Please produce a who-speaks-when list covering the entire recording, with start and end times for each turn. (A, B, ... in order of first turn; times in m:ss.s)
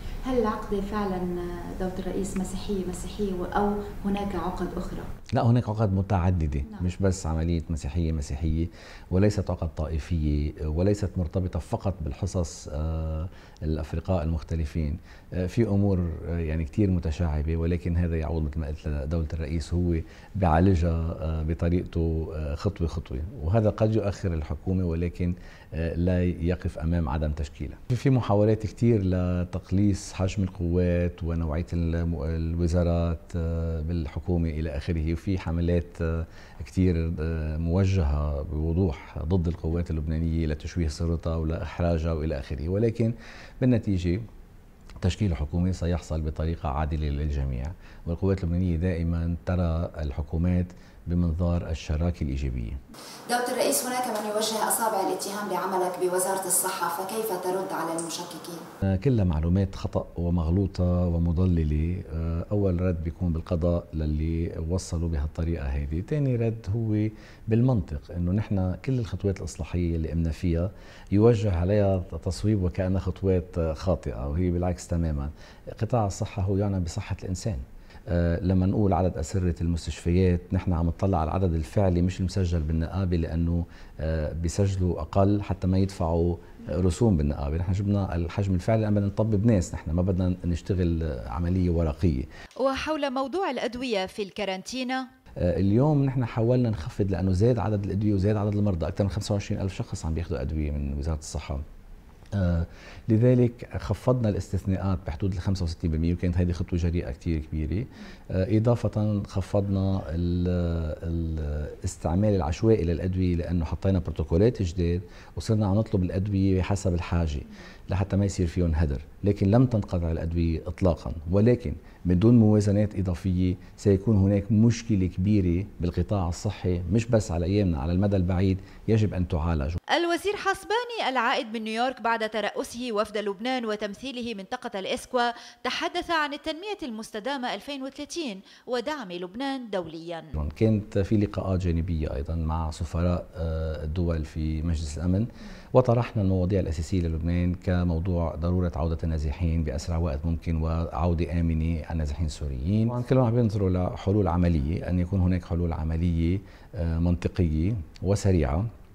0:00.2-0:05.1 A
0:05.3-0:44.2 B
0:45.0-0:52.8 B
0:53.3-0:58.6 A
0:58.8-1:32.3 B
1:32.6-1:35.1 C
1:35.4-1:41.6 B
1:42.3-2:09.8 B
2:09.9-2:20.3 C
2:20.4-2:38.6 B